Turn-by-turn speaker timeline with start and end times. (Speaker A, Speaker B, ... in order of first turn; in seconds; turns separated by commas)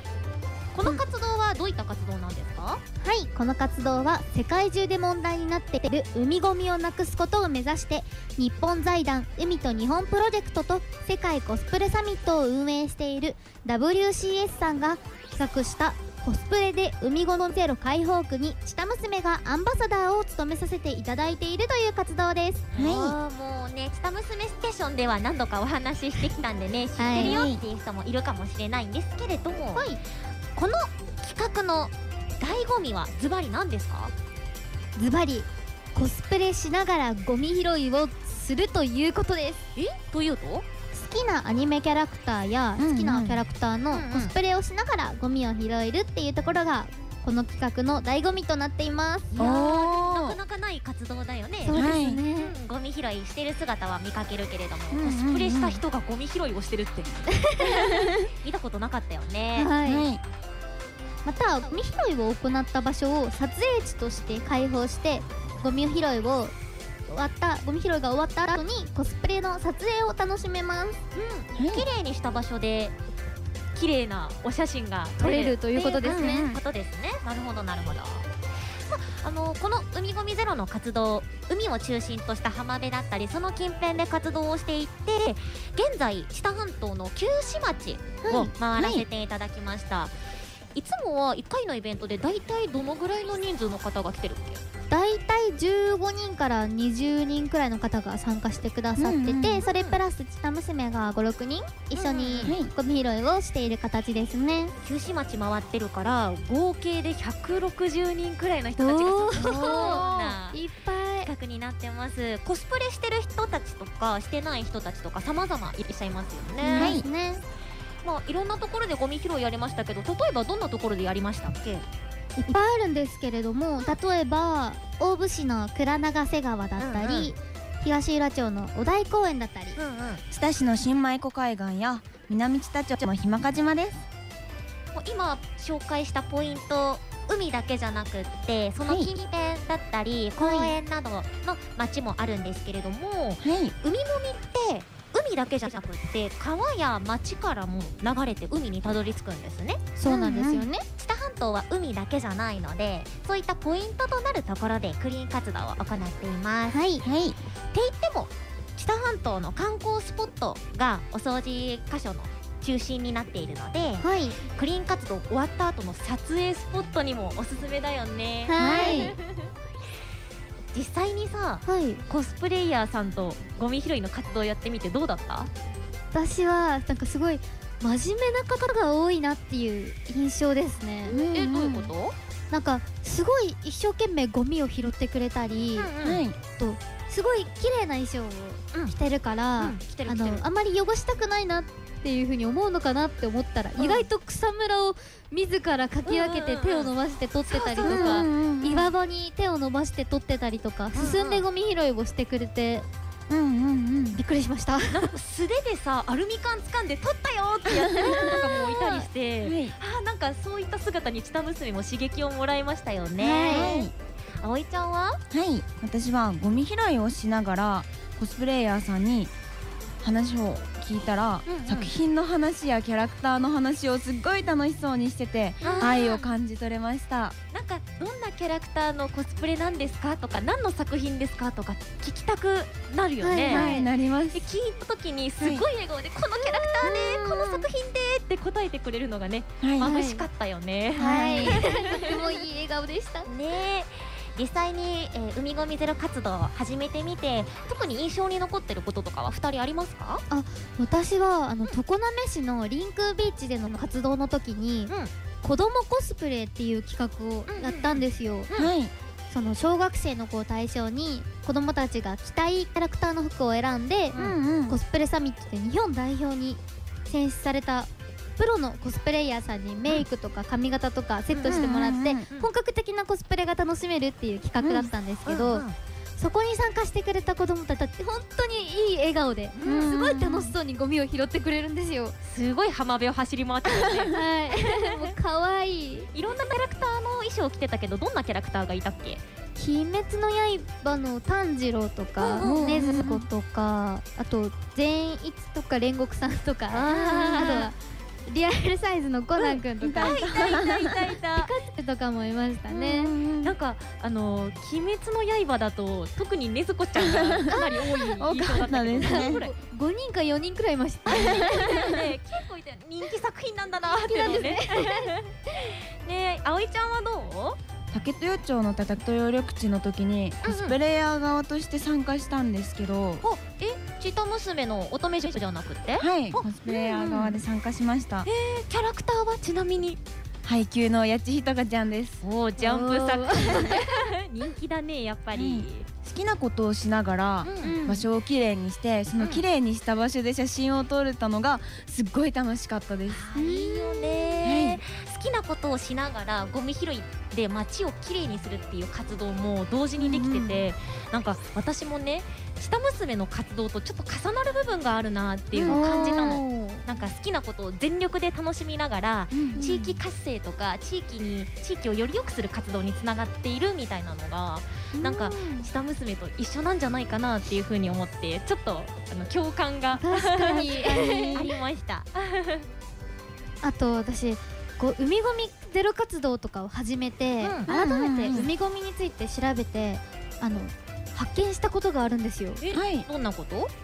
Speaker A: 0.7-2.8, Speaker B: 3.0-22.7, Speaker A: 22.7-29.9, Speaker C: 22.7-23.2, Speaker B: 27.0-27.4, Speaker C: 27.1-27.6, Speaker B: 29.7-30.0, Speaker A: 30.6-34.1, Speaker B: 35.0-39.6, Speaker A: 39.8-40.6, Speaker B: 40.9-49.3, Speaker C: 42.8-43.4, Speaker A: 43.9-44.3, Speaker A: 49.3-59.7, Speaker C: 49.4-50.4, Speaker B: 51.6-52.5, Speaker C: 51.7-52.2, Speaker C: 54.9-55.8, Speaker B: 57.3-57.8, Speaker C: 57.7-58.3, Speaker B: 59.5-60.1, Speaker C: 59.8-60.2, Speaker B: 61.2-66.5, Speaker B: 67.1-71.0, Speaker A: 71.1-72.9, Speaker C: 71.5-71.8, Speaker A: 73.7-78.3, Speaker B: 75.2-76.4, Speaker C: 76.0-76.6, Speaker A: 78.8-90.1, Speaker B: 88.2-88.5, Speaker C: 88.7-89.0, Speaker A: 90.7-94.6, Speaker B: 94.9-104.7, Speaker C: 99.0-99.7, Speaker A: 99.7-100.0, Speaker A: 102.0-102.5, Speaker C: 102.4-102.7, Speaker A: 104.8-110.6, Speaker B: 108.8-111.3, Speaker C: 109.3-110.4, Speaker A: 111.2-117.0, Speaker B: 116.6-117.4, Speaker C: 116.8-117.0, Speaker A: 118.0-121.8, Speaker B: 122.4-129.8, Speaker A: 126.8-127.3, Speaker A: 129.8-130.2, Speaker C: 130.3-133.9, Speaker A: 134.9-149.8, Speaker C: 138.9-139.1, Speaker B: 140.4-140.7, Speaker C: 143.4-143.7, Speaker B: 149.9-150.8, Speaker C: 150.0-150.7, Speaker A: 151.0-156.8, Speaker B: 156.7-157.0, Speaker C: 157.0-157.3, Speaker A: 157.7-169.5, Speaker B: 164.0-164.4, Speaker B: 168.4-169.2, Speaker C: 168.6-169.1, Speaker A: 170.7-175.5, Speaker B: 171.6-172.0, Speaker B: 176.1-181.2, Speaker C: 181.1-181.9, Speaker A: 181.1-182.1, Speaker B: 182.5-185.9, Speaker A: 185.8-186.2, Speaker C: 186.0-186.4, Speaker B: 186.6-202.8, Speaker A: 189.6-190.4, Speaker A: 193.8-194.0, Speaker A: 196.0-196.9, Speaker A: 197.5-198.2, Speaker C: 197.8-198.9, Speaker A: 200.9-201.4, Speaker C: 203.3-204.2, Speaker B: 204.1-205.1, Speaker A: 204.9-215.2, Speaker C: 207.8-208.4, Speaker B: 207.9-209.1, Speaker C: 209.4-209.7, Speaker B: 213.2-213.8, Speaker C: 213.5-213.9, Speaker C: 215.3-219.3, Speaker C: 220.0-227.3, Speaker A: 221.4-221.9, Speaker A: 225.6-226.3, Speaker A: 227.5-233.8, Speaker B: 233.2-233.9, Speaker C: 233.5-234.5, Speaker A: 234.3-242.2, Speaker C: 235.4-235.7, Speaker B: 236.4-236.9, Speaker C: 236.8-237.6, Speaker C: 239.6-239.9, Speaker B: 239.8-240.2, Speaker C: 240.9-241.6, Speaker B: 240.9-243.3, Speaker A: 243.2-250.2, Speaker B: 250.3-258.5, Speaker A: 257.5-258.7, Speaker C: 258.5-258.9, Speaker B: 259.3-275.6, Speaker C: 264.1-264.8, Speaker A: 271.3-271.6, Speaker C: 271.4-272.2, Speaker C: 274.6-274.9, Speaker A: 275.2-275.8, Speaker B: 276.2-282.1, Speaker A: 279.5-279.9, Speaker C: 279.6-280.5, Speaker A: 282.2-285.1, Speaker B: 283.6-286.1, Speaker A: 286.1-289.2, Speaker B: 289.6-300.2, Speaker A: 292.2-293.0, Speaker C: 292.4-293.2, Speaker A: 296.7-297.7, Speaker A: 299.4-301.5, Speaker C: 299.8-301.1, Speaker B: 301.3-303.1, Speaker C: 302.7-303.5, Speaker A: 303.4-309.5, Speaker C: 306.9-307.6, Speaker B: 307.5-308.1, Speaker C: 308.2-309.4, Speaker B: 309.0-312.0, Speaker C: 311.1-312.0, Speaker A: 311.2-317.6, Speaker B: 313.9-315.7, Speaker C: 317.9-323.2, Speaker A: 320.4-320.8, Speaker A: 323.2-327.4, Speaker C: 326.0-328.3, Speaker A: 328.2-330.0, Speaker C: 330.4-332.2, Speaker A: 332.2-335.9, Speaker B: 332.6-334.1, Speaker C: 335.3-343.3, Speaker A: 337.4-337.8, Speaker B: 337.6-338.1, Speaker A: 339.2-339.4, Speaker A: 343.1-372.6, Speaker B: 343.3-344.4, Speaker C: 344.4-344.8, Speaker B: 350.0-350.6, Speaker C: 350.1-350.6, Speaker C: 355.5-355.9, Speaker B: 355.7-356.9, Speaker C: 359.3-359.6, Speaker B: 359.5-360.0, Speaker B: 364.9-365.6, Speaker B: 370.0-371.5, Speaker C: 371.0-371.4, Speaker B: 373.6-382.6, Speaker A: 377.4-377.7, Speaker C: 377.6-378.5, Speaker A: 382.6-383.7, Speaker C: 382.7-383.1